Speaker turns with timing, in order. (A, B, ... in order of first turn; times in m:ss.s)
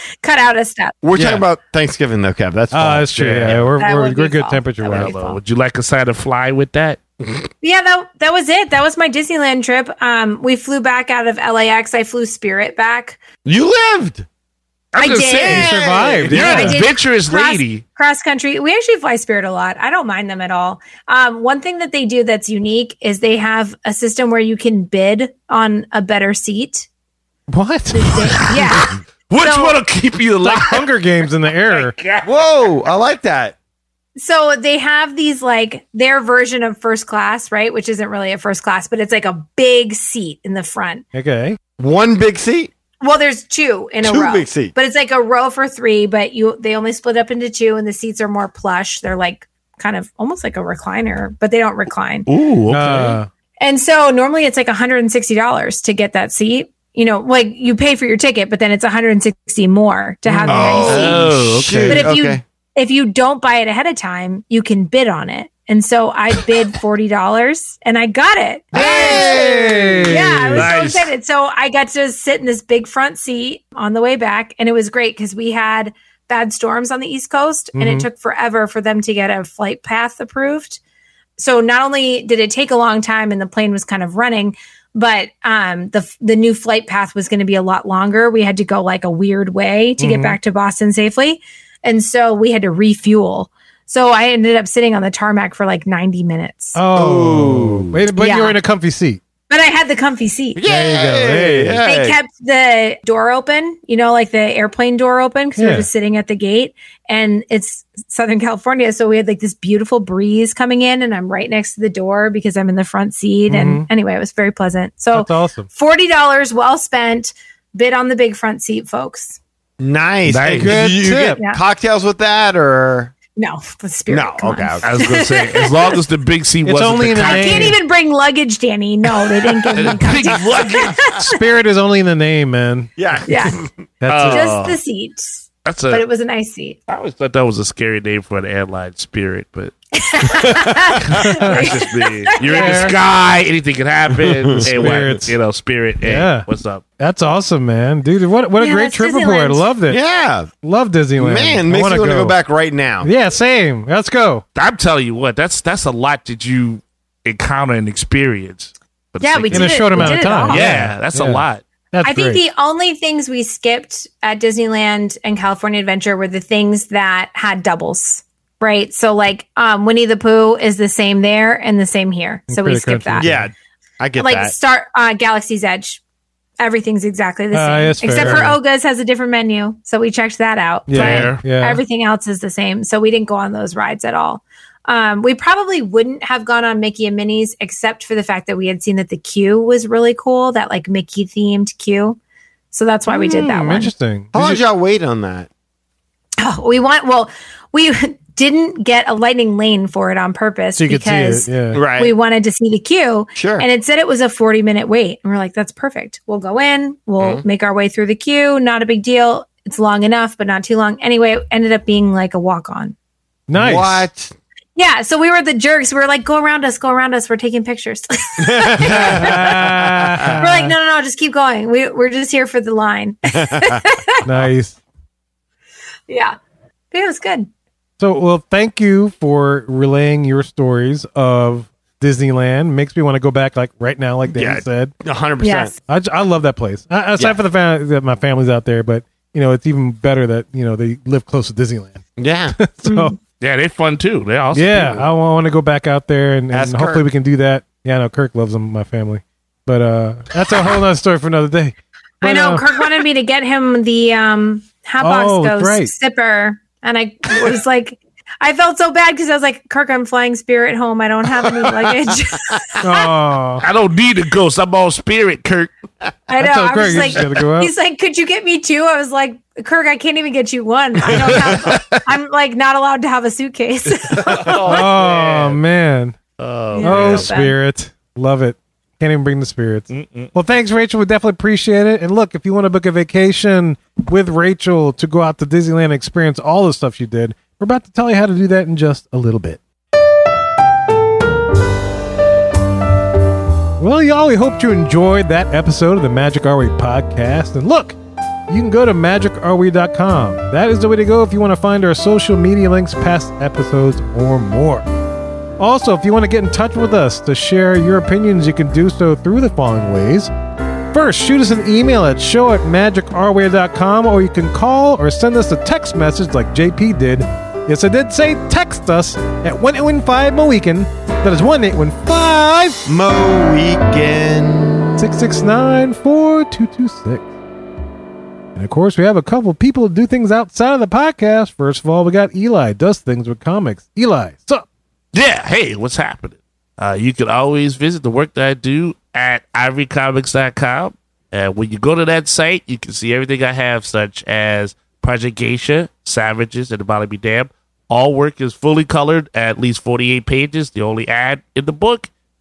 0:00.2-0:01.0 A
0:01.0-0:03.7 B
0:01.2-0:01.4 C
0:02.7-0:05.2 D
0:03.2-0:03.8 C
0:03.8-0:05.4 A
0:04.8-0:07.0 C
0:07.6-0:13.2 A
0:13.4-0:14.3 B
0:14.9-0:17.8 C
0:15.0-0:15.7 A
0:15.4-0:16.5 B
0:15.5-0:16.8 D
0:16.4-0:26.9 A
0:27.5-0:28.2 D
0:27.9-0:29.8 A
0:28.4-0:32.3 C
0:30.4-0:32.0 D
0:32.2-0:33.6 B
0:34.2-0:41.0 A
0:41.1-0:41.6 D
0:41.8-0:42.7 B
0:43.0-0:52.3 A
0:44.0-0:44.7 B
0:52.3-0:53.2 C
0:52.7-0:53.3 D
0:53.6-1:01.2 A
1:00.3-1:01.8 D
1:00.5-1:02.4 B
1:00.9-1:02.1 C
1:01.9-1:09.4 A
1:08.7-1:10.1 B
1:08.8-1:09.4 C
1:09.0-1:10.7 D
1:10.0-1:20.8 A
1:10.5-1:11.1 C
1:17.8-1:18.1 D
1:21.4-1:36.8 A
1:30.0-1:30.4 D
1:36.8-1:39.2 D
1:36.9-1:38.1 B
1:38.2-1:38.6 A
1:39.5-1:40.6 A
1:40.6-1:42.2 B
1:40.7-1:41.8 D
1:41.8-1:59.4 A
1:45.6-1:45.9 D
1:53.5-1:53.9 D
1:55.1-1:55.7 D
1:59.8-2:03.1 B
2:00.3-2:00.8 C
2:00.6-2:01.4 D
2:03.4-2:05.9 A
2:04.1-2:05.0 B
2:04.8-2:07.8 C
2:06.6-2:07.8 D
2:07.2-2:11.3 A
2:09.8-2:11.2 C
2:10.1-2:11.2 B
2:11.3-2:12.9 D
2:13.0-2:13.8 B
2:13.3-2:13.6 A
2:14.0-2:14.5 D
2:14.1-2:14.8 C
2:14.3-2:16.8 A
2:15.6-2:16.0 C
2:16.9-2:19.8 C
2:20.0-2:23.0 A
2:20.4-2:21.0 B
2:21.1-2:26.8 C
2:21.2-2:21.8 D
2:22.4-2:23.0 D
2:24.1-2:24.6 B
2:24.6-2:25.3 D
2:26.0-2:26.5 D
2:27.0-2:30.0 D
2:28.6-2:29.7 A
2:29.9-2:30.5 B
2:30.6-2:32.4 D
2:31.2-2:33.1 B
2:33.0-2:34.4 D
2:34.6-2:41.6 C
2:39.2-2:40.7 A
2:39.5-2:42.4 D
2:42.0-2:53.3 A
2:52.5-2:53.5 D
2:53.2-2:54.5 B
2:54.2-2:56.0 A
2:56.6-3:12.2 A
2:57.5-2:58.6 D
2:58.1-2:58.5 B
3:00.9-3:01.8 D
3:00.9-3:01.4 C
3:12.7-3:13.9 A
3:13.1-3:14.6 D
3:14.3-3:15.5 B
3:16.4-3:33.0 A
3:20.8-3:21.8 D
3:21.7-3:22.1 B
3:23.4-3:23.7 B
3:27.2-3:27.4 B
3:33.5-3:34.1 D
3:33.5-3:34.4 B
3:34.8-3:39.5 A
3:38.4-3:40.4 B
3:38.9-3:40.8 D
3:40.4-3:44.2 A
3:43.3-3:43.8 B
3:44.2-3:44.8 D
3:46.1-3:46.4 A
3:46.9-3:47.5 A
3:48.0-3:54.9 D
3:54.3-3:55.8 B
3:55.4-3:55.7 A
3:55.9-4:02.0 D
4:02.2-4:02.6 B
4:02.6-4:03.2 D
4:02.8-4:03.1 A
4:03.4-4:05.1 C
4:04.5-4:12.6 D
4:06.5-4:07.0 B
4:12.2-4:22.9 A
4:15.0-4:15.9 D
4:22.8-4:23.6 D
4:23.6-4:25.7 C
4:26.3-4:34.5 A
4:26.4-4:27.7 D
4:31.1-4:31.9 C
4:31.2-4:31.8 B
4:34.1-4:35.6 C
4:34.5-4:36.2 D
4:36.4-4:37.3 C
4:36.7-4:37.6 A
4:36.8-4:49.6 D
4:39.9-4:40.3 C
4:53.8-4:58.0 D
4:58.5-5:04.9 D
5:05.6-5:10.3 D
5:10.9-5:22.8 D
5:22.9-5:25.1 B
5:25.0-5:27.3 D
5:28.6-5:34.6 D
5:35.1-5:52.1 C